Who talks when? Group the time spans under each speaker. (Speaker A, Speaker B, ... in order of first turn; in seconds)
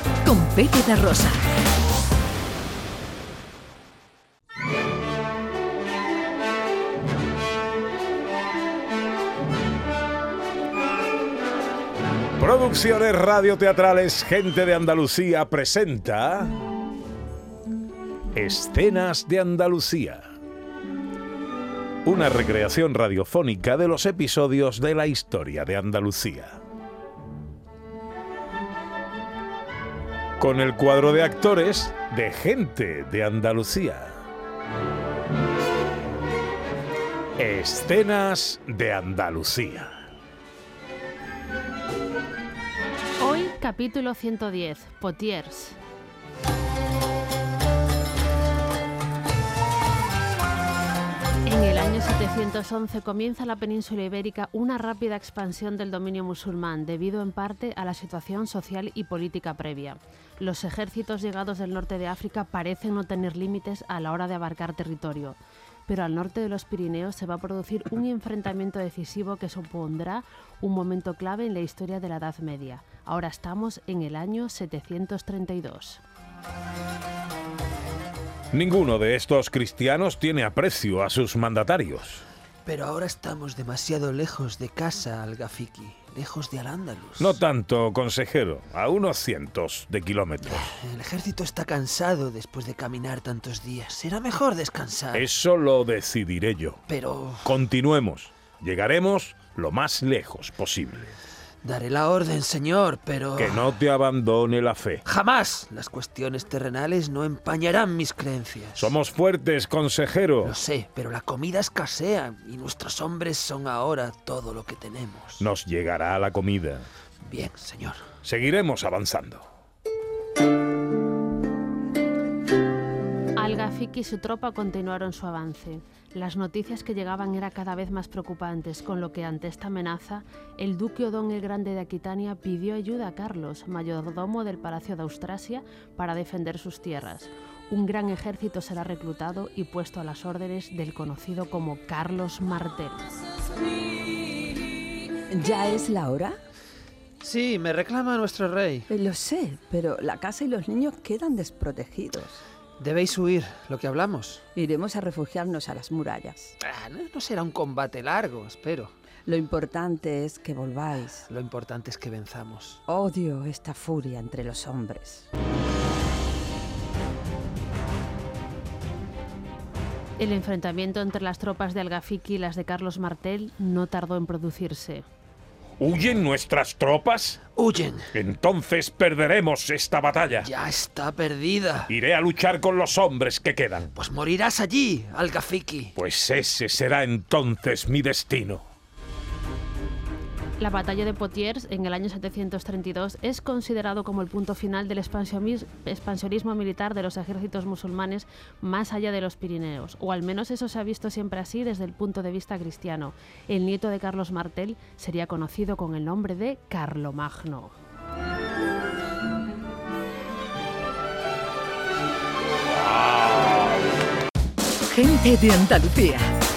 Speaker A: 0.2-1.4, 214.8-216.3
Speaker B: 12.4-16.6, 18.3-20.2, 22.0-26.6, 30.4-34.1, 37.4-40.0, 78.5-82.2, 87.2-90.7, 95.1-96.8, 97.4-101.1, 103.3-105.0, 108.7-110.5, 115.4-116.9, 118.2-119.5, 175.8-177.4, 178.1-180.5, 181.9-183.9, 185.9-188.6
Speaker C: 43.2-45.8, 51.5-76.0, 123.3-143.0, 170.2-175.0, 190.6-207.8
Speaker D: 82.6-87.4, 90.5-95.2, 96.9-97.5, 101.6-103.7, 105.0-108.9, 110.4-115.5, 117.2-118.0, 147.2-148.9, 152.8-154.4, 156.6-158.9, 161.3-162.8, 177.5-178.1, 180.4-181.9, 183.9-185.9
Speaker E: 145.3-146.4, 148.9-152.4, 154.5-156.5, 159.2-161.2, 162.9-165.3